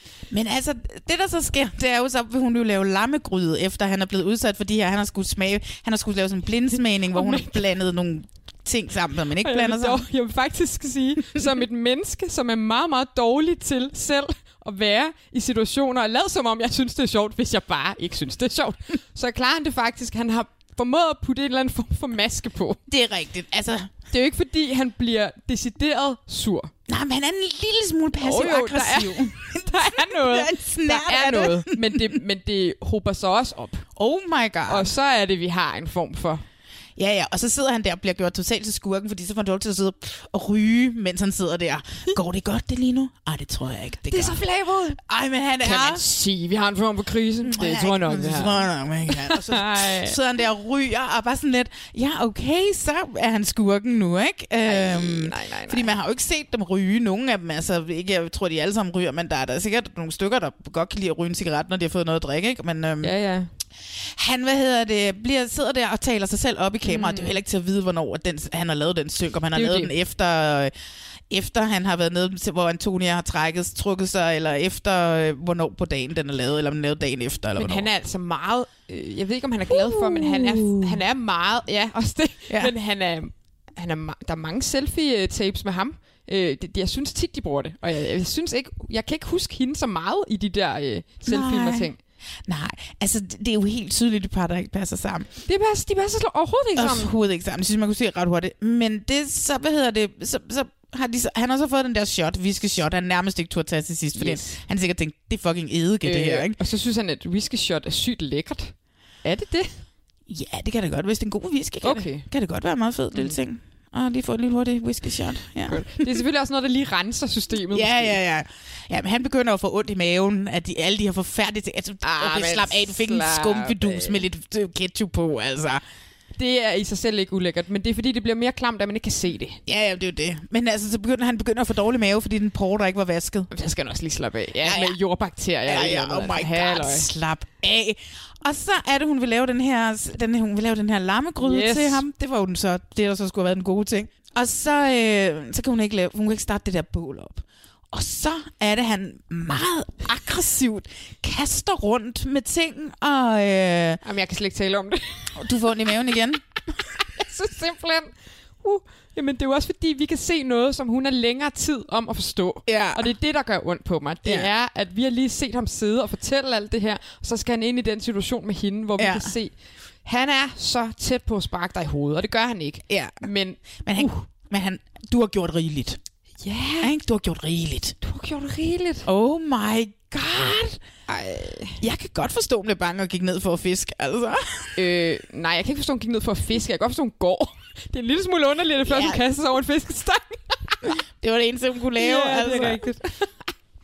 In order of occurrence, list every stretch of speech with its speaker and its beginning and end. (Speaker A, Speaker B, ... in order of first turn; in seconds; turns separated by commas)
Speaker A: 0.3-10.1, Speaker B: 7.1-7.6, Speaker B: 9.4-22.8, Speaker A: 22.9-23.9, Speaker B: 24.1-26.7, Speaker A: 26.9-32.2, Speaker B: 28.2-33.9, Speaker A: 34.0-34.9, Speaker B: 34.7-36.4, Speaker A: 37.0-44.4, Speaker B: 44.1-45.0, Speaker A: 45.0-46.0, Speaker B: 45.6-50.2, Speaker A: 47.4-63.1, Speaker B: 54.6-55.9, Speaker B: 63.0-63.5, Speaker A: 64.2-70.7, Speaker B: 66.8-67.4, Speaker B: 69.5-69.9, Speaker A: 71.3-77.9, Speaker B: 77.6-92.0, Speaker A: 79.7-81.0, Speaker A: 91.2-91.9, Speaker A: 92.5-95.3, Speaker B: 95.5-97.1, Speaker A: 96.8-106.6, Speaker B: 104.1-104.6, Speaker B: 106.0-108.7, Speaker B: 109.2-109.8, Speaker A: 110.3-116.2, Speaker B: 111.8-112.2, Speaker B: 115.7-118.2, Speaker A: 117.7-125.8, Speaker B: 122.0-124.2, Speaker B: 126.4-129.6, Speaker A: 129.7-133.5, Speaker B: 133.5-137.1, Speaker A: 134.6-134.9, Speaker A: 135.7-154.0, Speaker B: 141.4-142.0, Speaker B: 154.0-155.4, Speaker A: 155.4-156.4, Speaker B: 157.1-169.5, Speaker A: 162.7-163.1, Speaker A: 164.2-164.5, Speaker A: 169.0-169.3, Speaker B: 170.1-174.2, Speaker A: 172.9-173.2, Speaker A: 173.8-176.0, Speaker B: 176.4-176.9, Speaker A: 176.8-177.9, Speaker B: 178.0-179.1, Speaker A: 179.1-180.8, Speaker B: 181.1-181.8, Speaker A: 181.8-184.8, Speaker B: 184.8-190.9, Speaker A: 188.9-189.2, Speaker A: 190.9-192.8, Speaker B: 192.0-193.3